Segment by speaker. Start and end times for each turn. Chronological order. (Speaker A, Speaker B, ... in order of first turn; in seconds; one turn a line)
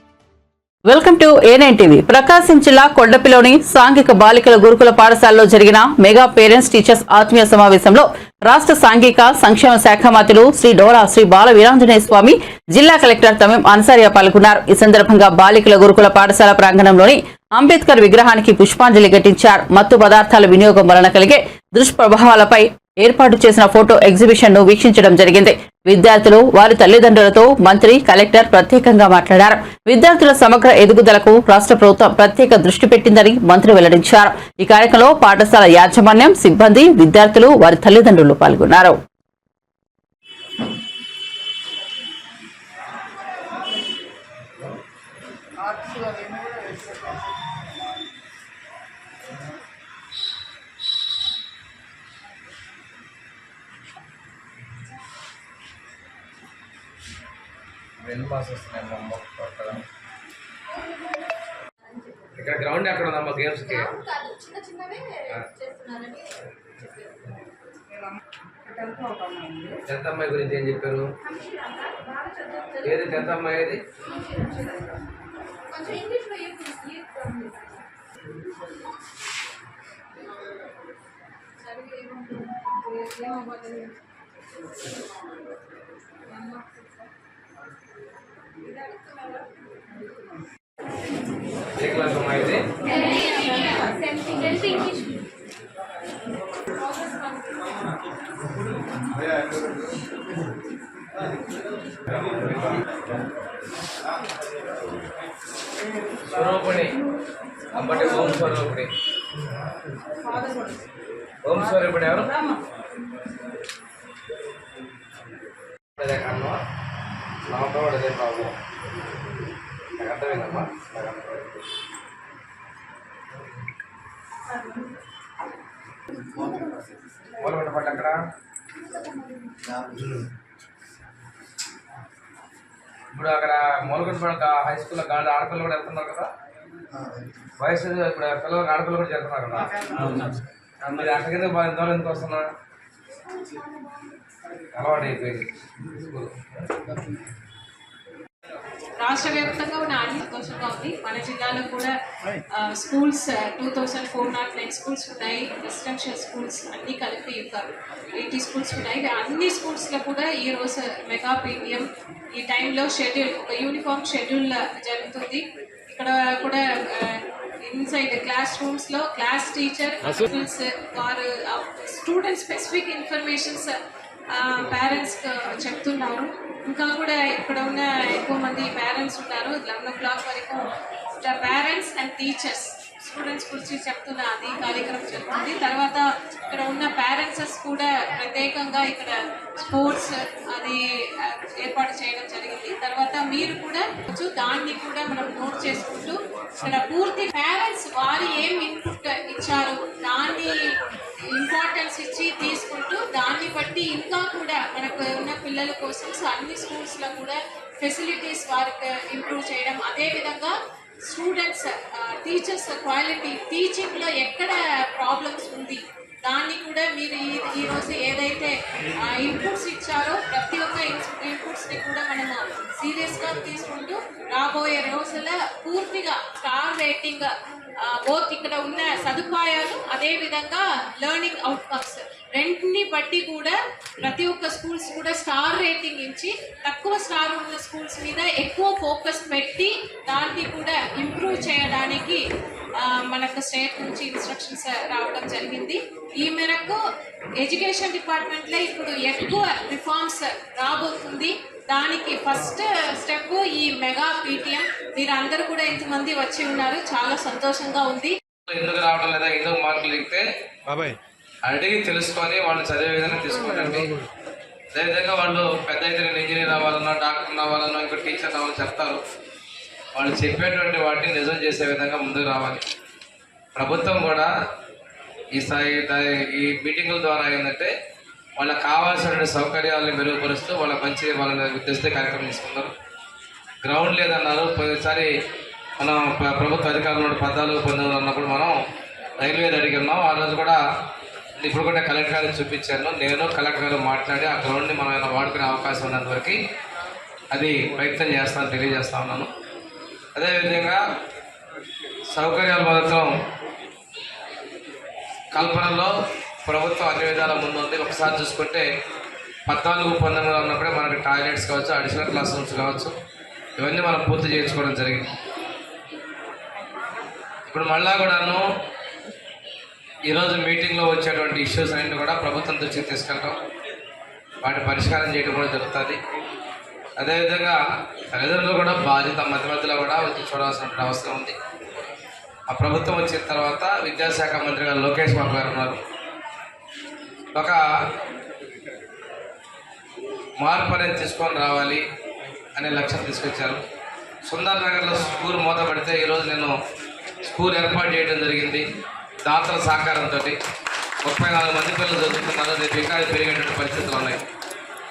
Speaker A: 0.8-39.0
Speaker B: 45.6-47.3
Speaker C: 58.0-59.8
Speaker B: 61.9-62.3
Speaker C: 62.3-64.0
Speaker B: 63.8-67.1
Speaker B: 69.3-69.7
Speaker C: 69.9-71.1
Speaker B: 71.3-72.9
Speaker C: 72.8-73.8
Speaker B: 74.0-74.9
Speaker B: 75.7-77.8
Speaker B: 81.6-83.9
Speaker B: 88.8-89.4
Speaker C: 91.8-92.7
Speaker B: 92.9-95.2
Speaker B: 96.8-97.4
Speaker C: 102.3-102.8
Speaker C: 106.2-107.0
Speaker C: 107.7-108.9
Speaker C: 111.4-112.4
Speaker C: 116.0-116.6
Speaker C: 117.5-118.5
Speaker C: 120.0-121.5
Speaker C: 127.4-128.2
Speaker B: 129.7-130.1
Speaker C: 133.1-136.3
Speaker C: 137.6-142.5
Speaker C: 144.7-146.3
Speaker D: 149.0-151.9
Speaker D: 152.5-173.7
Speaker D: 174.3-227.3
Speaker D: 227.8-242.2
Speaker D: 242.8-246.8
Speaker D: 247.4-258.1
Speaker C: 258.5-264.0
Speaker C: 264.7-269.0
Speaker C: 269.9-272.6
Speaker C: 273.5-274.3
Speaker C: 275.3-277.7
Speaker C: 278.4-282.7
Speaker C: 283.6-285.1
Speaker C: 285.8-288.5
Speaker C: 289.2-290.6
Speaker C: 291.4-296.4
Speaker C: 297.3-299.3
Speaker C: 300.1-300.8
Speaker C: 302.1-303.1
Speaker C: 305.3-305.9
Speaker C: 306.4-308.6
Speaker C: 309.5-312.9
Speaker C: 313.6-315.1
Speaker C: 317.5-318.4
Speaker C: 320.1-323.4
Speaker C: 324.4-326.0
Speaker C: 327.0-327.6
Speaker C: 328.1-331.3
Speaker C: 332.5-335.8
Speaker C: 337.3-337.6
Speaker C: 340.4-341.8
Speaker C: 342.5-343.6
Speaker C: 344.2-346.5
Speaker C: 347.2-348.6
Speaker C: 349.2-350.4
Speaker C: 351.0-354.2